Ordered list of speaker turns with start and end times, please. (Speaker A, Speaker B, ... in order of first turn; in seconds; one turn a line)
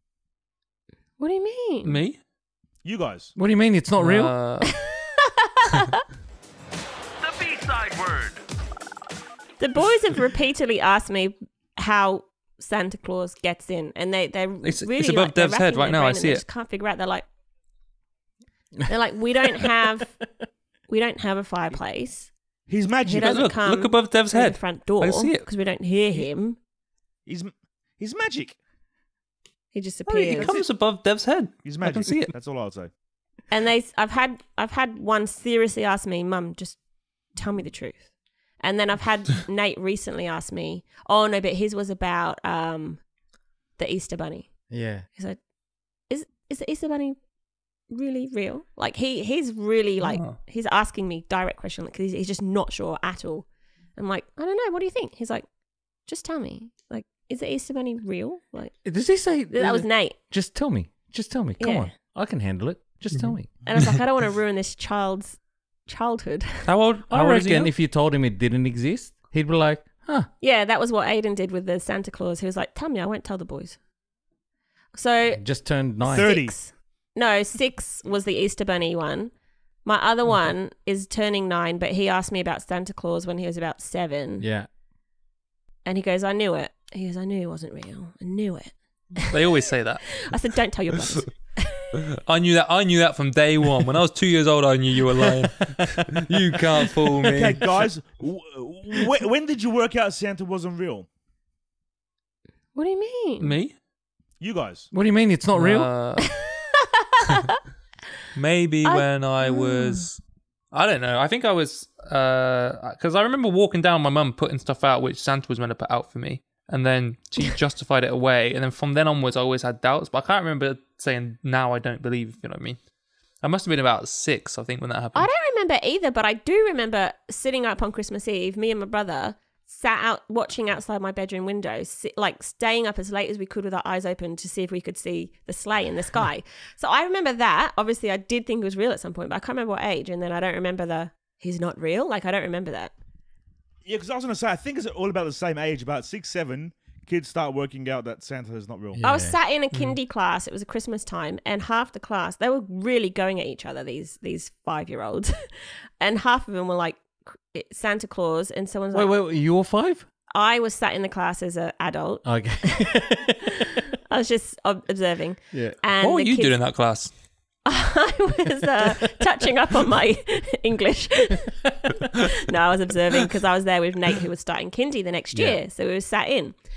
Speaker A: 1.2-2.0
Speaker B: 1.8-2.2
Speaker C: 2.8-3.3
Speaker D: 3.4-4.3
Speaker B: 4.0-4.7
Speaker A: 5.6-6.0
Speaker C: 7.2-8.4
Speaker A: 9.6-17.2
Speaker B: 14.6-16.4
Speaker A: 18.9-20.2
Speaker A: 20.9-22.3
Speaker C: 22.7-23.4
Speaker A: 23.0-26.6
Speaker B: 23.2-25.5
Speaker C: 27.2-28.6
Speaker A: 29.7-30.6
Speaker B: 30.1-32.3
Speaker C: 31.6-32.9
Speaker A: 33.5-43.1
Speaker A: 43.7-45.4
Speaker D: 44.7-45.0
Speaker A: 46.0-47.2
Speaker A: 47.9-55.5
Speaker B: 50.0-50.4
Speaker A: 56.0-60.2
Speaker D: 58.8-63.6
Speaker A: 61.6-61.9
Speaker B: 63.1-64.0
Speaker A: 63.6-66.7
Speaker B: 66.6-67.7
Speaker D: 67.1-70.3
Speaker A: 70.4-73.8
Speaker A: 74.9-79.3
Speaker D: 75.4-76.4
Speaker C: 76.1-76.5
Speaker A: 79.8-84.5
Speaker D: 84.4-84.7
Speaker A: 85.8-89.5
Speaker B: 89.3-90.2
Speaker A: 90.1-91.9
Speaker B: 92.2-97.6
Speaker D: 96.6-97.6
Speaker C: 97.3-101.1
Speaker A: 102.7-103.6
Speaker B: 103.4-103.8
Speaker C: 104.4-104.9
Speaker D: 104.9-105.9
Speaker B: 105.5-106.3
Speaker A: 107.2-107.5
Speaker B: 108.3-122.8
Speaker A: 108.8-110.0
Speaker B: 123.4-125.3
Speaker A: 125.1-142.9
Speaker C: 143.8-149.0
Speaker D: 148.9-149.4
Speaker A: 149.0-159.2
Speaker D: 158.9-160.0
Speaker A: 160.3-163.2
Speaker D: 162.2-163.2
Speaker A: 164.1-166.7
Speaker D: 165.5-165.8
Speaker B: 166.0-167.1
Speaker A: 167.6-176.6
Speaker D: 175.3-175.6